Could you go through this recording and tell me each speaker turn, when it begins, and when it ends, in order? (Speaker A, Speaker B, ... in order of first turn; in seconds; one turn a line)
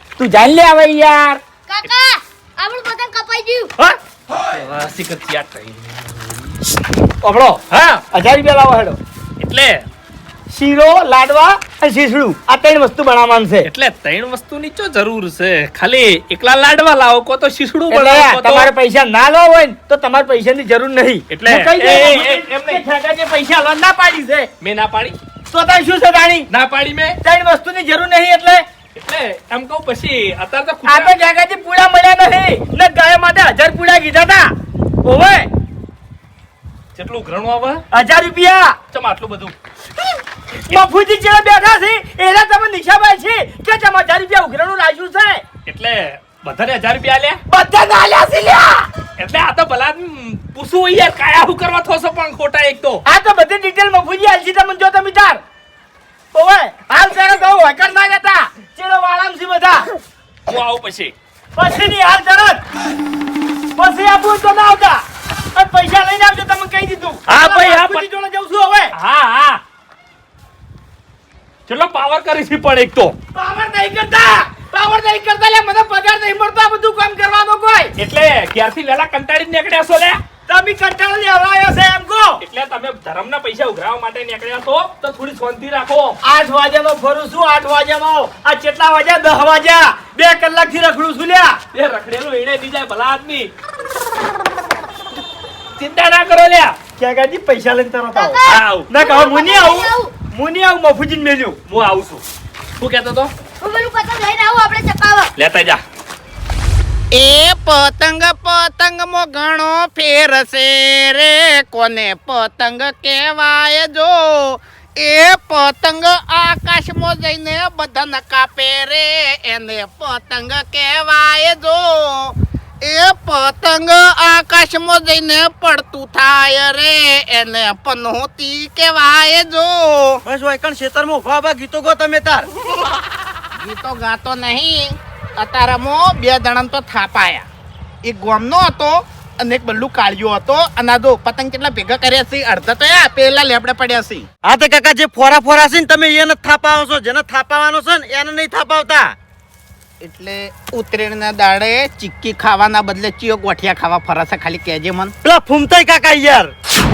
Speaker A: 0.2-1.4
Speaker B: 1.7-3.7
Speaker C: 4.5-6.1
Speaker A: 7.2-9.0
Speaker C: 7.7-8.0
Speaker C: 9.4-9.8
Speaker A: 10.5-13.7
Speaker C: 13.6-18.7
Speaker A: 17.9-24.5
Speaker C: 21.3-22.8
Speaker C: 24.6-25.1
Speaker A: 25.5-26.5
Speaker C: 26.5-27.2
Speaker A: 27.2-28.6
Speaker C: 28.9-31.1
Speaker A: 30.9-34.5
Speaker A: 35.0-35.5
Speaker C: 37.0-37.8
Speaker A: 37.9-38.8
Speaker C: 38.9-39.5
Speaker A: 40.5-45.4
Speaker C: 45.6-47.4
Speaker A: 47.5-48.9
Speaker C: 49.2-53.0
Speaker A: 53.0-55.4
Speaker A: 56.3-59.9
Speaker C: 60.5-61.1
Speaker A: 61.5-62.6
Speaker A: 63.8-65.0
Speaker A: 65.5-68.9
Speaker C: 67.3-68.1
Speaker C: 68.9-69.6
Speaker C: 71.7-73.1
Speaker A: 73.3-77.9
Speaker C: 78.0-80.2
Speaker A: 80.5-82.4
Speaker C: 82.4-86.2
Speaker A: 86.2-91.6
Speaker C: 91.7-93.5
Speaker C: 95.8-96.8
Speaker A: 97.0-101.6
Speaker B: 98.1-100.1
Speaker C: 98.5-98.9
Speaker C: 101.7-102.2
Speaker C: 102.8-103.3
Speaker B: 103.6-105.3
Speaker C: 105.4-105.8
Speaker D: 107.1-130.2
Speaker E: 130.2-132.5
Speaker D: 133.6-137.5
Speaker D: 138.0-144.3
Speaker E: 144.4-149.1
Speaker D: 150.0-155.1
Speaker E: 155.2-156.5